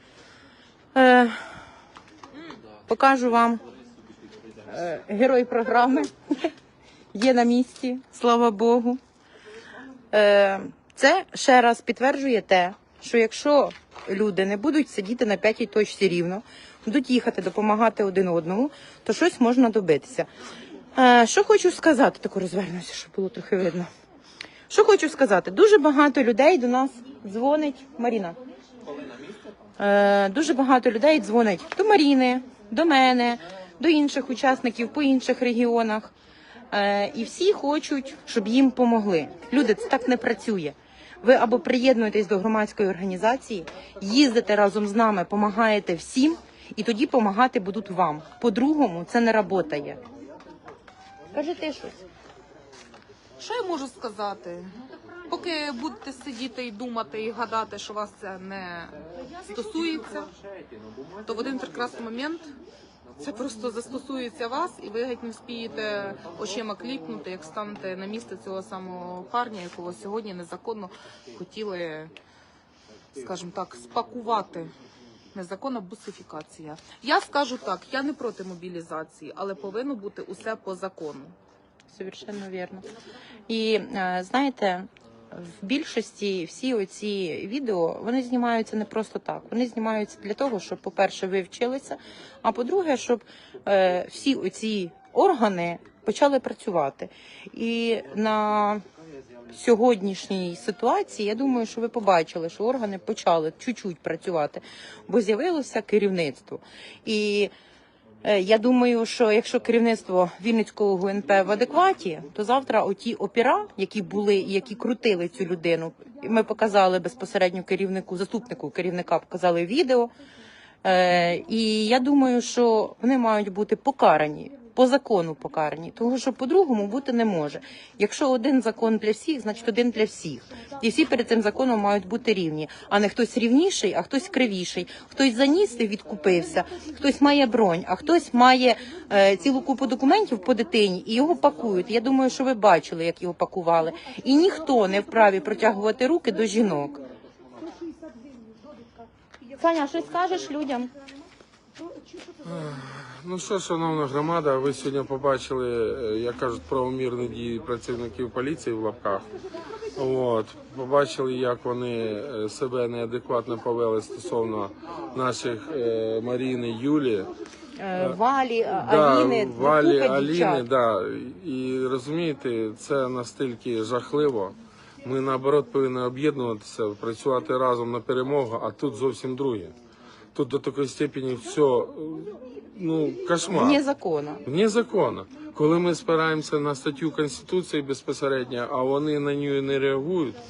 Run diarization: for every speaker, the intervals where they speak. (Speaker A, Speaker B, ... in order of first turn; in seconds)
Speaker A: 0.9-1.4, 2.9-3.6, 4.7-6.5, 7.1-9.0, 10.1-20.3, 20.9-23.9, 24.7-28.4, 29.8-36.1, 36.7-50.0, 51.3-52.0, 81.9-82.8, 83.5-98.8, 99.5-107.5, 108.2-120.1, 120.8-147.0, 149.5-150.9, 167.8-170.6, 183.5-184.4
Speaker B: 53.4-54.7, 55.3-60.3, 61.2-62.5, 63.2-72.1, 73.1-74.7, 75.3-81.3
Speaker C: 152.4-159.3, 159.9-167.3, 168.8-179.7, 180.3-183.8, 184.4-190.4